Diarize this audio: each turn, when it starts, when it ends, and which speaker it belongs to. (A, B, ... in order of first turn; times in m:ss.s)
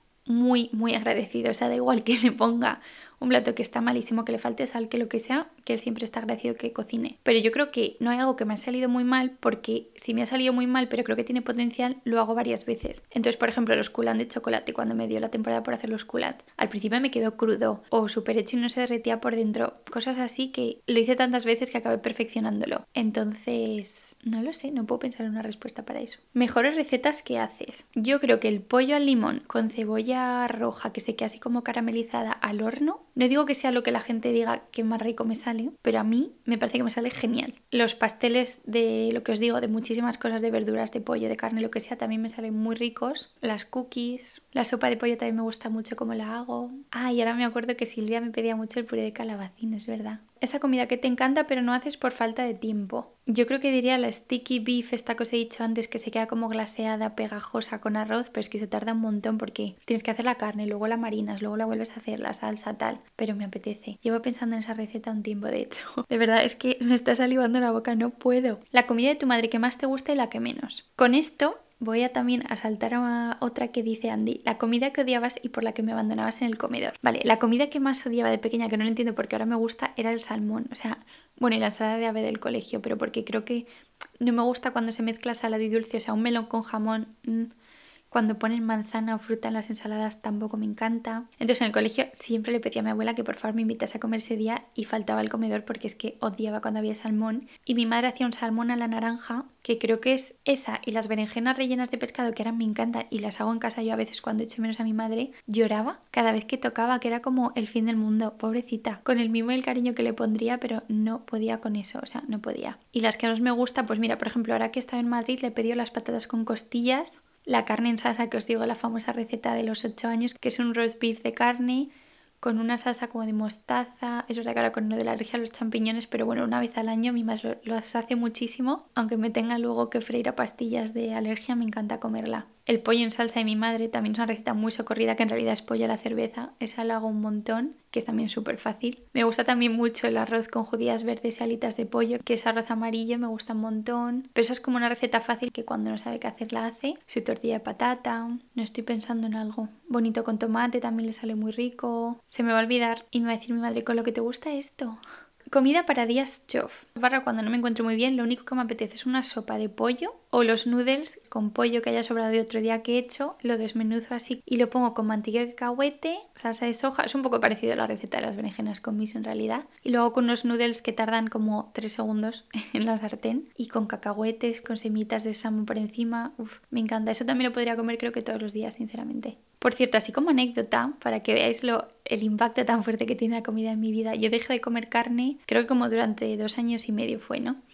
0:00.3-1:23.7 A
1:24.2-1:27.5 A
1:28.1-2:01.9 A
2:02.4-3:07.6 A